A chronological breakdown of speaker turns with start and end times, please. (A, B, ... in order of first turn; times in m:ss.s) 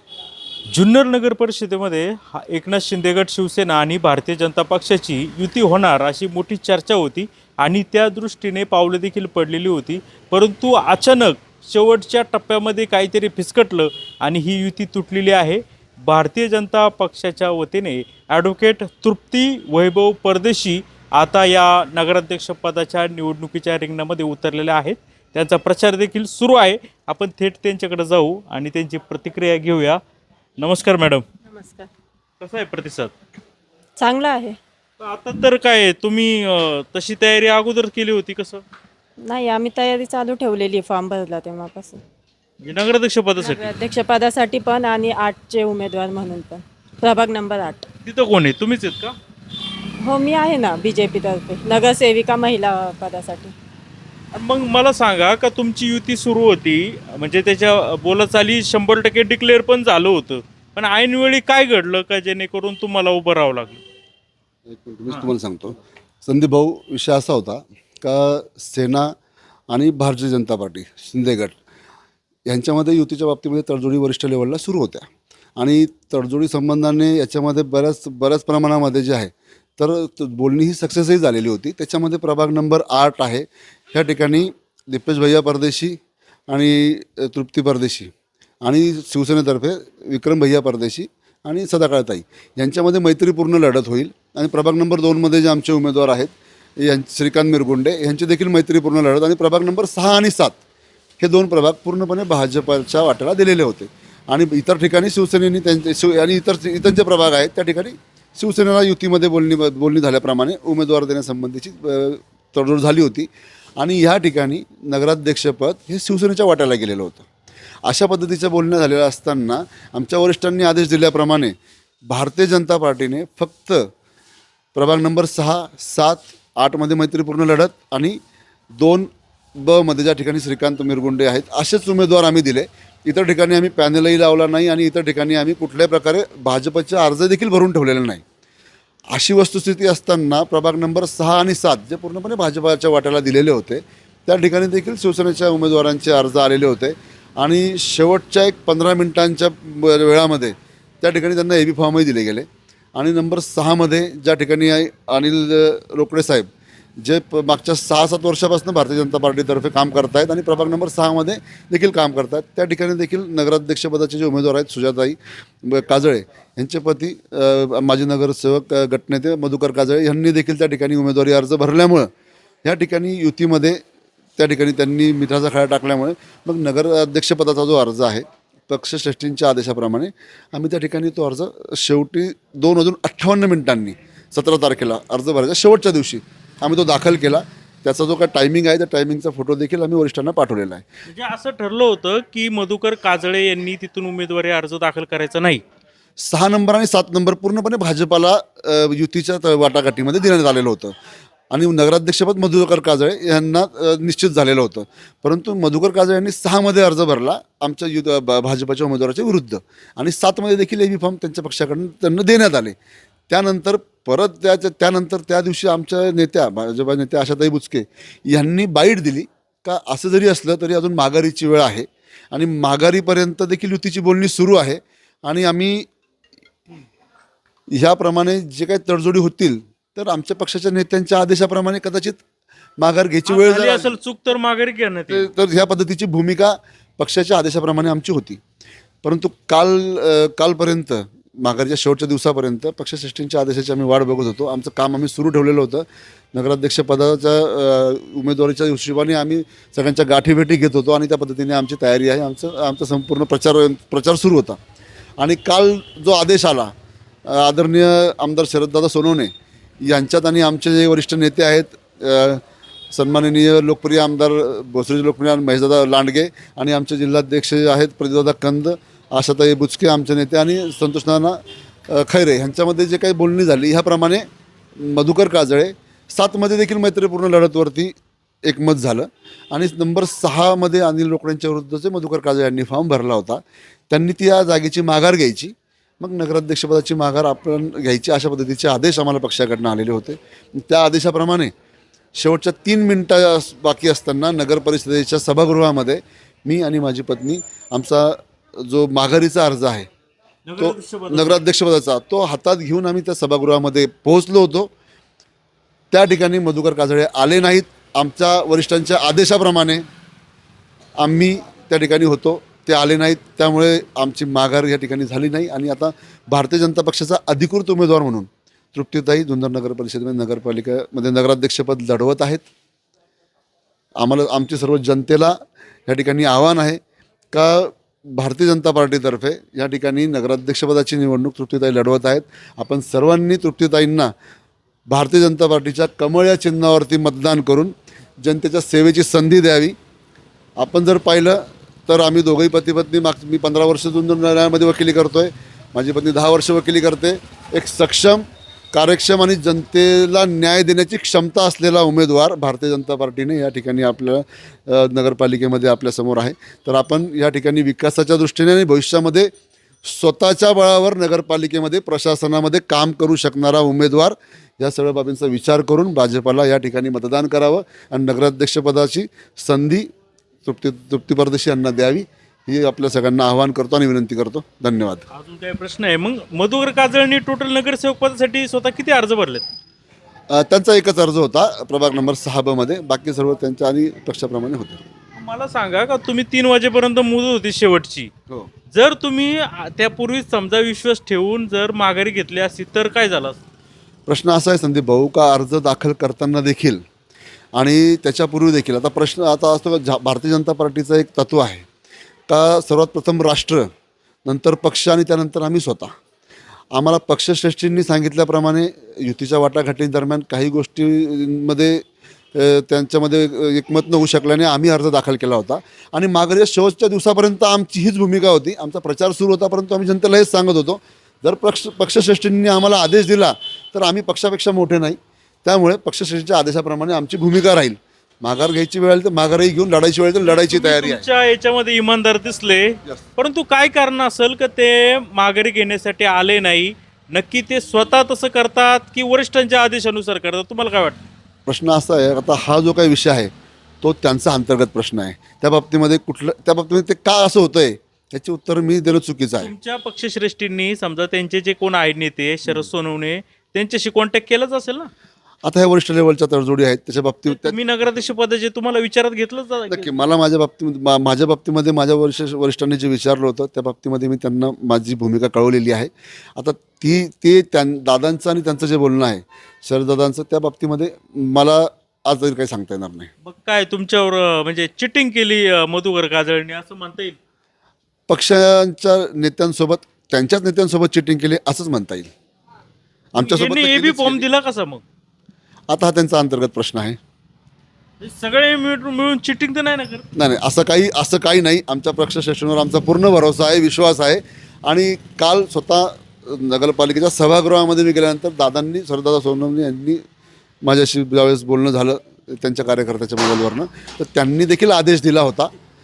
0:00.7-0:30.0 A
0:30.6-0:31.2 A
0:31.5-0:31.9 B
0:32.4-0:33.1 A
0:34.0-0:34.6 B
0:35.0-0:38.6 A
0:39.3-0:42.0 B
0:42.6-0:43.7 A
0:43.4-0:47.9 B
0:48.0-0:49.2 A
0:50.0-0:53.5 B
0:54.3-1:03.8 A
1:04.7-1:09.1 C
1:09.7-1:11.6 C
1:12.5-1:40.6 C
1:41.2-1:57.3 C
1:57.8-2:01.6 C
2:02.1-2:03.9 C
2:04.8-2:08.2 C
2:08.8-2:18.2 C
2:19.1-2:36.5 C
2:37.0-2:52.1 C
2:52.6-2:53.8 C
2:54.4-3:10.8 C
3:11.1-3:15.6 A
3:16.2-3:21.0 C
3:21.5-3:32.8 C
3:33.3-3:45.9 C
3:47.7-3:52.2 C
3:52.8-3:54.0 C
3:53.3-3:55.3 A
3:55.1-3:58.4 C
3:59.0-4:14.6 C
4:15.2-4:16.7 C
4:17.3-4:37.9 C
4:38.4-4:51.5 C
4:52.2-4:59.9 C
5:00.4-5:01.4 A
5:00.6-5:04.7 C
5:05.9-5:09.8 C
5:11.0-5:22.5 C
5:24.0-5:25.4 C
5:25.9-5:26.8 C
5:27.3-5:34.1 C
5:34.9-5:39.8 C
5:40.6-5:59.3 C
5:59.8-6:09.9 C
6:10.4-6:15.0 C
6:15.1-6:19.5 A
6:20.3-6:24.8 C
6:25.2-6:28.1 A
6:28.7-6:33.4 A
6:34.1-6:36.8 C
6:37.5-6:41.7 C
6:42.3-6:43.7 C
6:44.2-6:45.9 C
6:46.7-6:51.8 C
6:52.3-7:11.1 C
7:10.2-7:21.0 A
7:21.5-7:23.3 C
7:23.8-7:29.5 C
7:29.4-7:34.9 A
7:35.4-7:38.0 C
7:37.3-7:39.9 A
7:39.7-7:53.1 C
7:53.2-7:57.2 A
7:58.1-8:02.1 C
8:03.1-8:04.3 C
8:03.2-8:04.8 A
8:05.7-8:07.0 C
8:08.0-8:10.0 A
8:10.1-8:20.0 C
8:20.6-8:25.5 C